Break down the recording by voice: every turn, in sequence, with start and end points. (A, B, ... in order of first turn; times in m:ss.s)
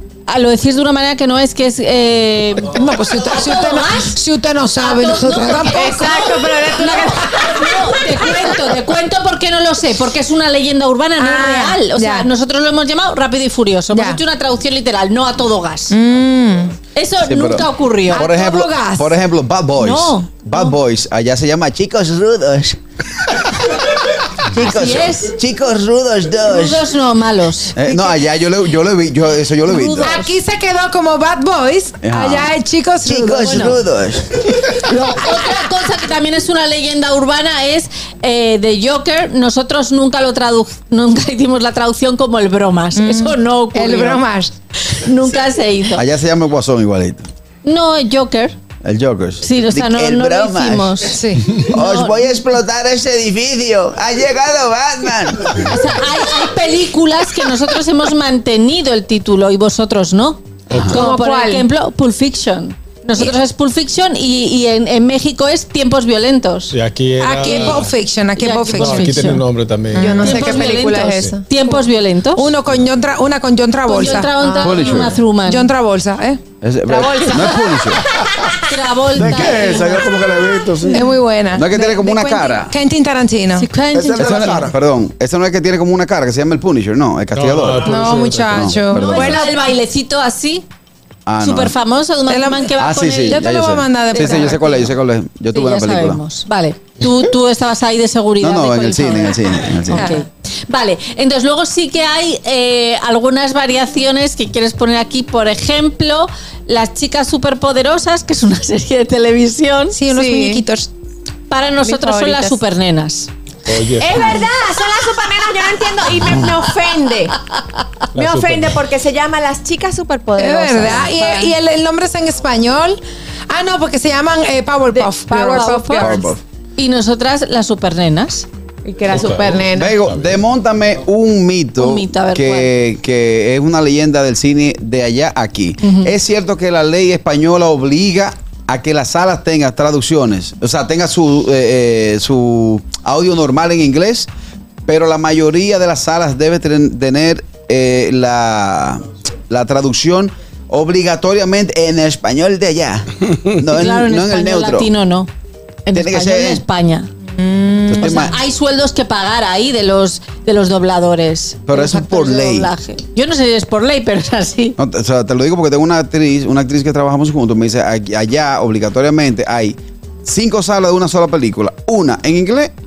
0:00.3-0:04.2 A
0:02.7-0:06.3 B
0:04.8-0:15.9 A
0:05.7-0:07.9 C
0:07.1-0:07.5 B
0:11.2-0:12.3 B
0:13.9-0:14.2 B
0:15.9-0:16.7 B
0:16.9-0:18.3 A
0:17.2-0:23.8 D
0:18.1-0:19.1 B
0:19.8-0:20.7 A
0:24.5-0:26.9 D
0:24.5-0:25.4 A
0:26.4-0:28.0 A
0:27.7-0:30.2 D
0:29.6-0:30.4 A
0:30.0-0:33.8 B
0:32.0-0:32.5 D
0:33.0-0:34.5 D
0:33.4-0:33.8 A
0:34.7-0:44.2 A
0:42.9-0:44.5 B
0:44.8-0:46.0 A
0:45.9-0:47.3 D
0:47.6-0:48.6 A
0:48.8-0:55.7 D
0:49.4-0:52.2 A
0:51.1-0:51.5 B
0:55.6-1:06.7 A
1:00.7-1:01.0 E
1:00.9-1:01.7 C
1:06.7-1:07.9 E
1:07.2-1:09.4 B
1:08.4-1:09.4 A
1:08.7-1:10.5 E
1:09.9-1:10.7 B
1:10.0-1:11.8 C
1:10.2-1:12.5 A
1:12.3-1:16.4 B
1:13.9-1:15.7 A
1:14.4-1:14.8 C
1:14.6-1:15.2 D
1:16.6-1:18.0 D
1:16.9-1:17.8 C
1:18.6-1:20.2 A
1:19.1-1:21.1 F
1:20.9-1:23.7 B
1:21.5-1:22.7 D
1:23.6-1:24.6 A
1:23.9-1:24.7 F
1:24.1-1:29.5 D
1:27.3-1:28.7 E
1:27.8-1:29.4 B
1:28.9-1:30.6 A
1:31.2-1:31.8 D
1:31.4-1:33.5 A
1:32.3-1:34.9 B
1:32.8-1:36.2 D
1:34.1-1:34.6 A
1:35.5-1:50.0 A
1:38.4-1:40.2 D
1:39.9-1:40.2 B
1:49.9-1:50.9 B
1:50.1-1:50.6 C
1:51.5-1:53.3 A
1:51.8-1:52.6 C
1:53.7-1:54.4 E
1:54.0-1:57.3 C
1:58.1-1:58.8 E
1:58.2-2:01.5 C
2:00.4-2:06.3 B
2:04.9-2:06.2 C
2:05.3-2:06.1 A
2:06.0-2:06.4 D
2:06.8-2:08.4 A
2:08.8-2:09.9 C
2:09.1-2:10.3 E
2:09.7-2:24.3 D
2:11.8-2:12.7 A
2:15.8-2:16.1 A
2:24.8-2:34.9 D
2:33.7-2:35.3 A
2:35.8-2:37.1 A
2:35.9-2:36.6 D
2:37.4-2:38.3 B
2:37.9-2:38.4 D
2:38.0-2:44.8 A
2:41.6-2:42.7 D
2:44.8-2:52.7 D